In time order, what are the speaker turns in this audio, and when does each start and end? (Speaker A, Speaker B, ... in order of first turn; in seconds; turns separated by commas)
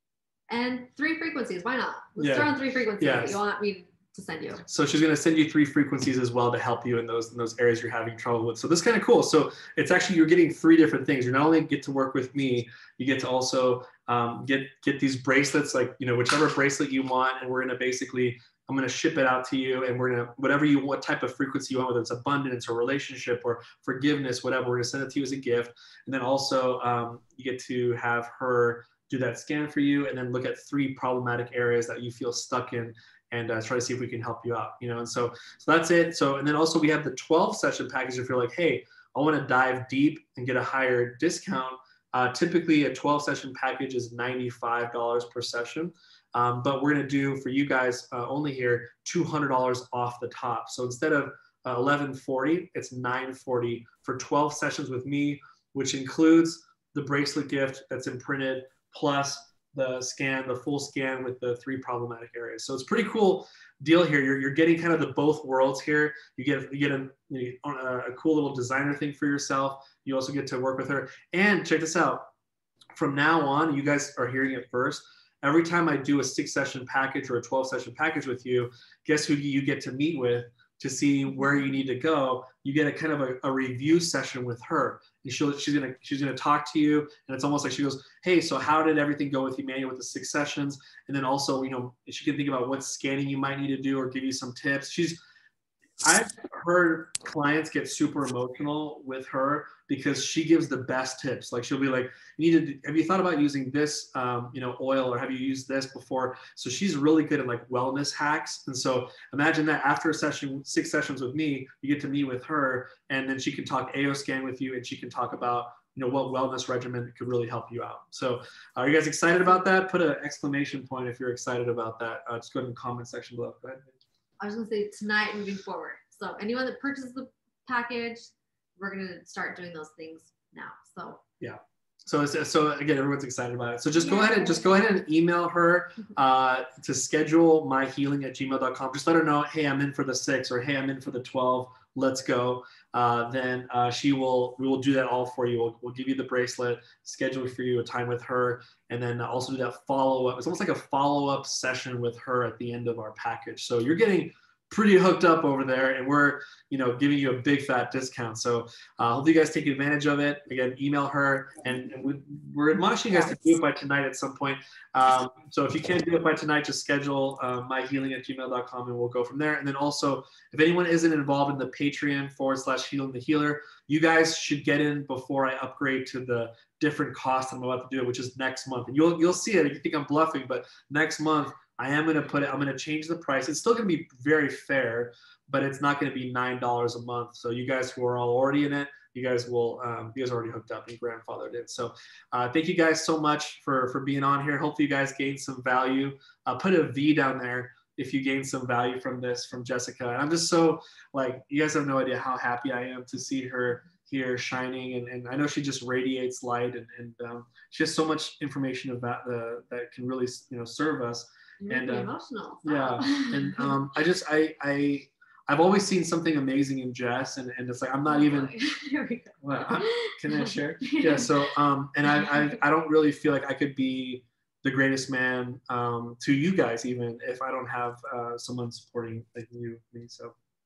Speaker A: 0.5-4.6, Speaker B: 2.2-3.4, Speaker B: 4.7-72.3, Speaker B: 73.0-95.2, Speaker B: 96.0-124.0, Speaker A: 124.4-131.2, Speaker B: 131.4-212.1, Speaker A: 134.0-134.7, Speaker A: 211.6-213.8, Speaker B: 212.6-218.5, Speaker A: 218.1-221.3, Speaker B: 219.4-230.3, Speaker A: 222.1-222.6